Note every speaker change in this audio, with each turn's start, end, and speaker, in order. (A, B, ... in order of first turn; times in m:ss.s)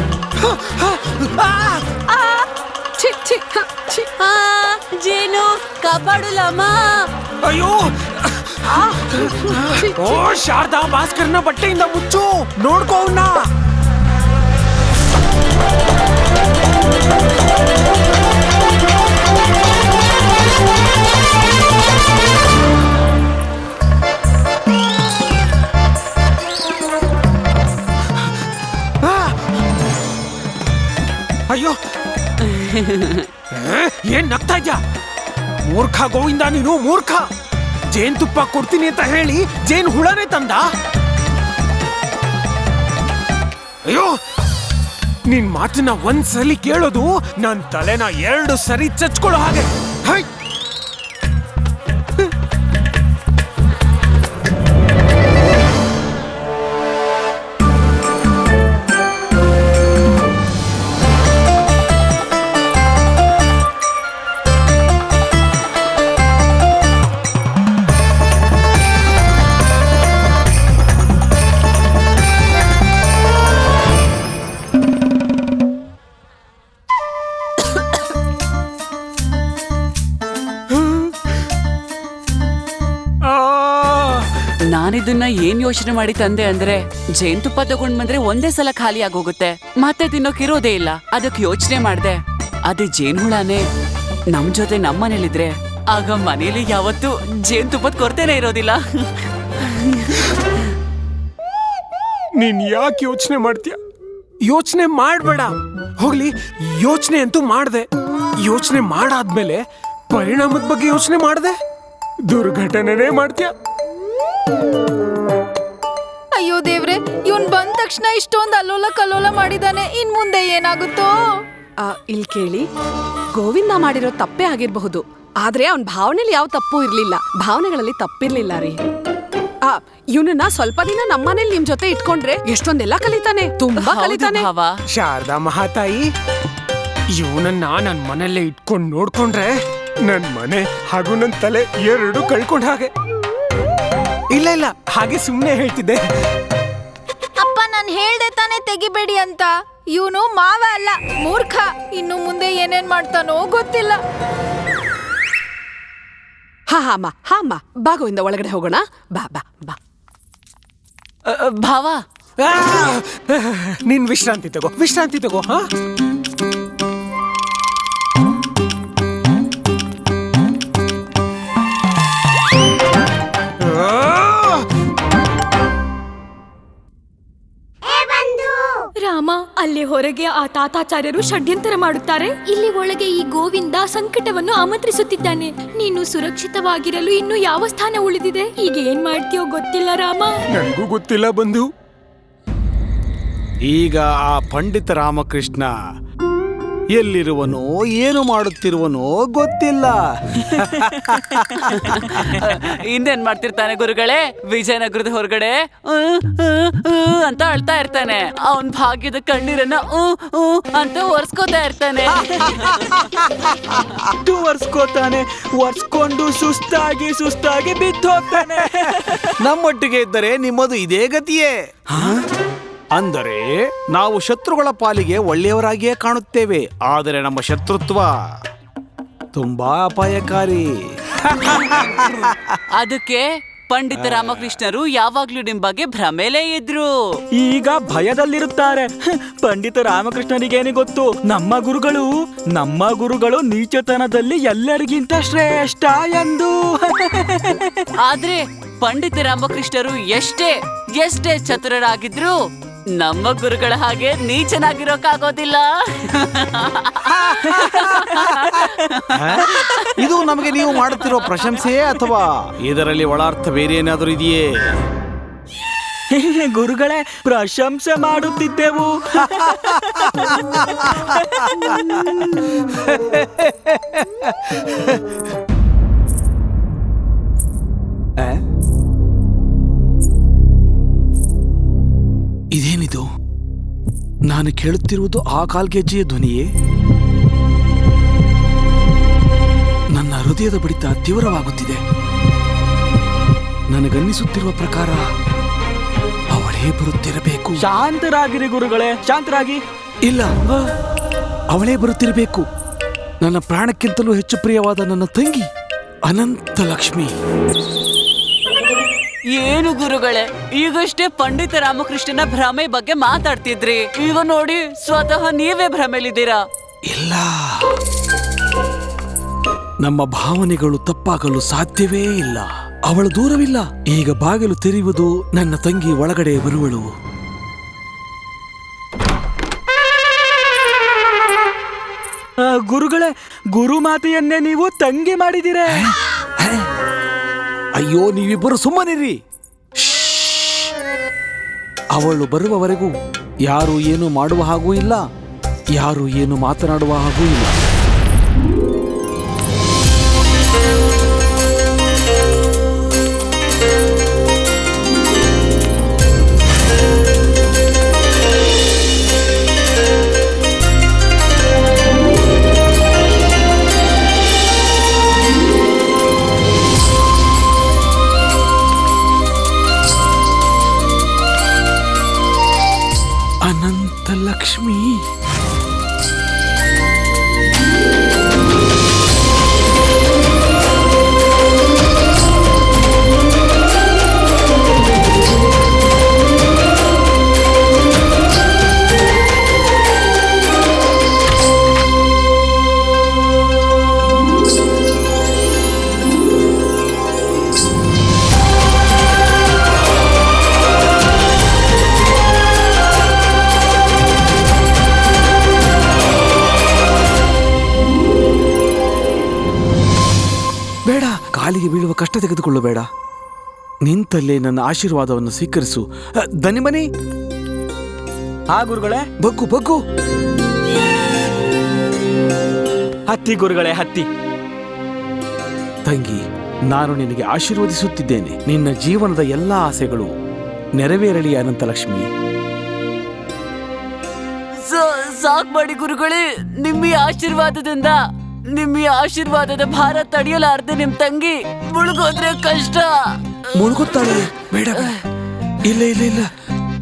0:00.4-0:01.9 A
0:02.1-0:04.1 B
0:04.2-0:06.9 C
0:07.4-0:08.8 A
0:08.7-0:10.2 B
0:09.5-0:13.4 A
0:29.0-0:29.4 A
0:31.5-0:31.8 A
0:32.5-0:33.3 C
0:33.5-0:34.8 A
0:35.7-0:37.3 A
0:37.9-0:40.7 A
0:43.9-0:44.2 A
0:45.3-0:50.3 A
1:24.7-1:33.6 C
1:34.3-1:40.4 C
1:42.4-1:43.8 A
1:44.5-1:47.9 A
1:48.4-1:51.6 A
1:52.3-1:53.5 A
1:56.4-2:01.1 D
2:01.8-2:02.7 B
2:03.3-2:08.8 B
2:09.6-2:14.5 B
2:13.7-2:14.8 C
2:14.9-2:16.1 A
2:17.2-2:19.5 A
2:20.1-2:22.9 A
2:24.3-2:26.0 A
2:27.4-2:34.0 D
2:36.7-2:39.8 B
2:41.3-2:42.0 C
2:42.4-2:45.6 A
2:53.6-2:54.7 A
2:59.0-3:10.4 E
3:10.6-3:11.7 A
3:13.7-3:15.7 F
3:16.9-3:21.7 F
3:21.7-3:33.2 C
3:34.1-3:39.4 G
3:38.6-3:42.2 F
3:42.9-3:48.2 F
3:49.4-3:52.6 F
3:52.8-3:56.9 C
3:54.0-3:54.5 F
3:57.4-4:07.9 G
4:08.0-4:12.4 C
4:13.0-4:18.6 C
4:17.4-4:17.9 F
4:17.6-4:18.9 G
4:19.1-4:24.7 F
4:19.4-4:20.6 C
4:26.1-4:31.5 G
4:33.0-4:33.8 F
4:34.5-4:34.9 F
4:42.5-4:43.1 F
4:44.3-4:46.5 F
4:49.9-4:51.8 F
4:53.7-4:55.1 F
4:56.3-4:57.7 F
4:57.6-4:59.6 G
5:00.1-5:00.3 F
5:01.5-5:02.5 F
5:03.2-5:05.5 F
5:06.1-5:07.1 F
5:09.3-5:16.4 C
5:16.9-5:17.8 F
5:19.8-5:26.9 F
5:32.4-5:35.9 G
5:35.8-5:36.7 F
5:37.8-5:39.2 F
5:39.8-5:40.7 F
5:41.9-5:42.9 F
5:43.5-5:45.0 F
5:45.8-5:47.6 F
6:13.4-6:15.0 F
6:50.9-6:52.9 F
6:53.8-6:56.9 F
6:58.5-6:59.1 G
6:59.2-6:59.8 F
7:03.1-7:04.1 G
7:05.8-7:10.1 F
7:10.8-7:12.1 F
7:14.6-7:18.0 C
7:18.5-7:22.9 C
7:23.6-7:24.9 F
7:25.7-7:26.3 F